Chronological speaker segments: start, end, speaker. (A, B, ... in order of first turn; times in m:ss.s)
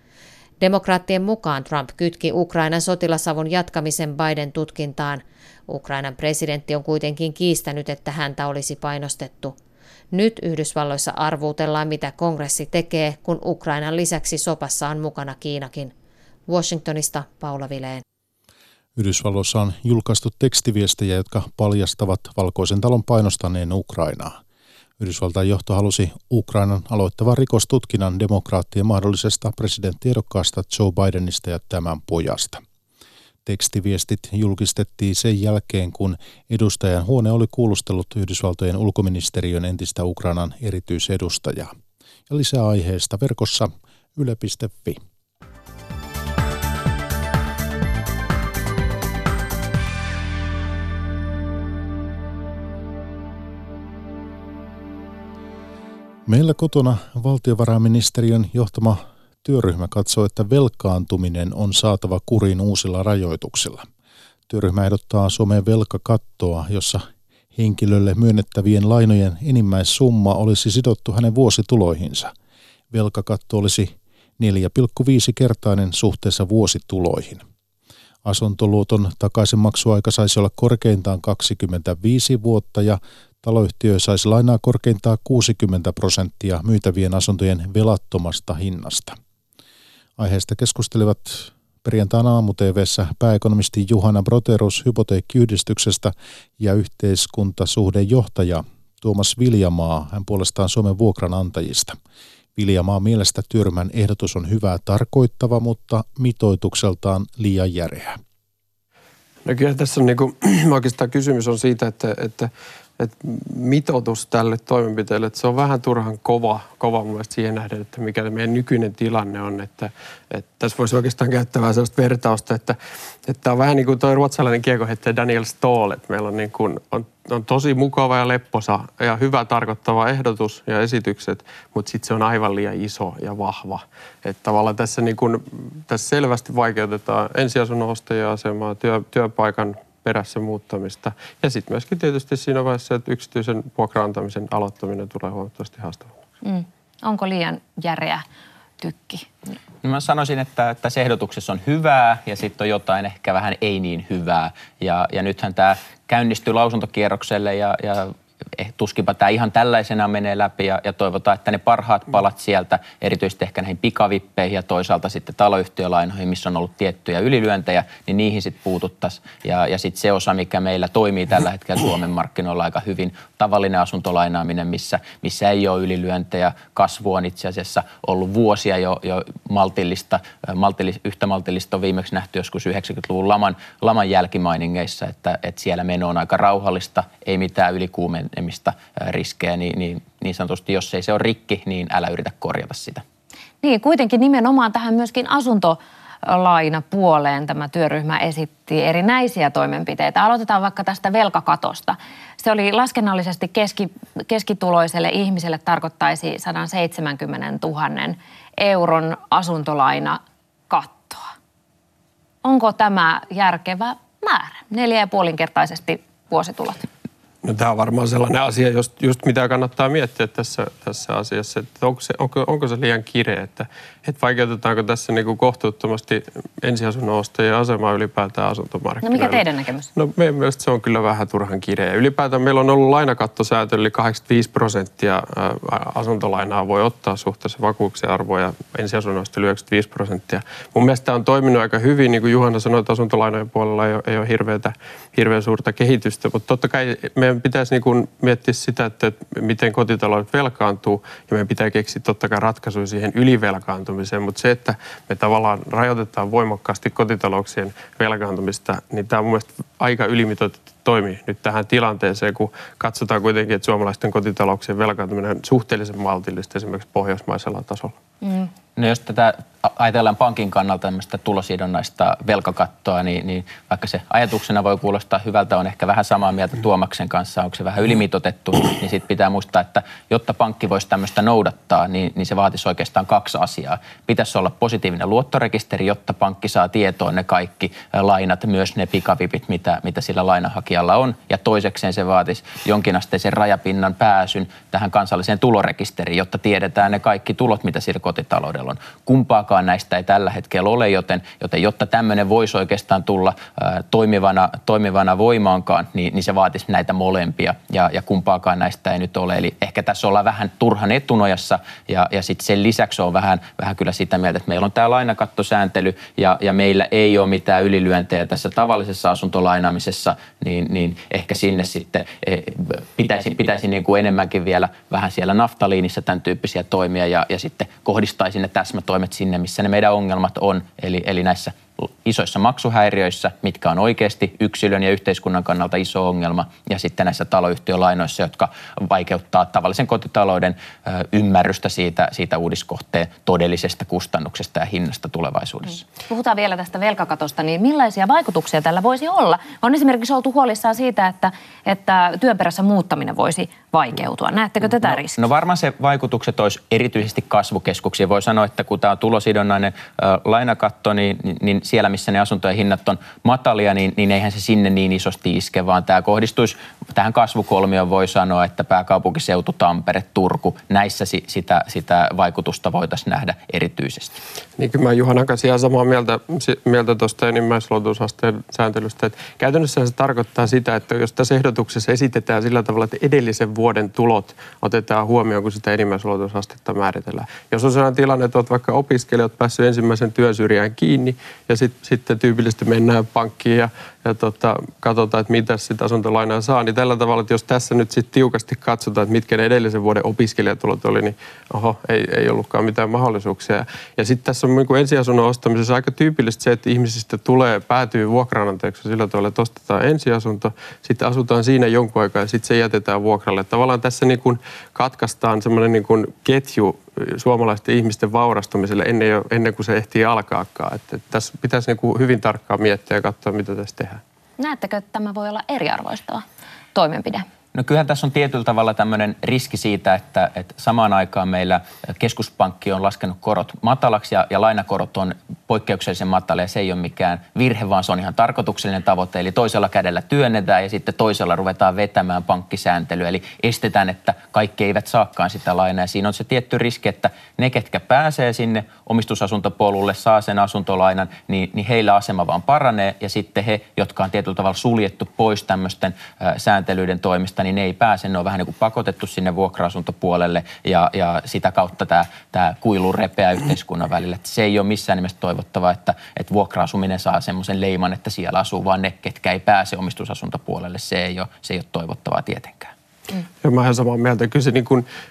0:00.6-0:09.6 A
0:10.1-0:15.9 A
0:16.5-0:18.0 A
0:19.0-0:24.4 B
0:25.0-0:32.6 B
0:33.4-0:41.8 B
0:42.3-0:45.0 B
0:56.3-1:03.8 B
1:04.5-1:12.3 B
1:12.9-1:17.4 B
1:18.2-1:29.2 B
1:30.2-1:42.0 B
1:42.6-1:48.2 B
1:49.4-2:26.1 C
2:26.4-2:28.2 D
2:28.8-2:29.5 D
2:29.8-3:13.0 E
3:13.6-3:31.3 D
3:32.4-3:36.9 D
3:37.4-3:49.4 C
3:49.0-3:49.9 D
3:49.9-4:28.0 C
4:28.2-4:28.5 D
4:28.8-5:45.8 E
5:46.1-5:55.2 D
5:54.6-6:14.2 E
6:14.6-7:04.0 C
7:04.4-7:07.2 D
7:07.5-7:52.7 E
7:53.4-7:54.8 C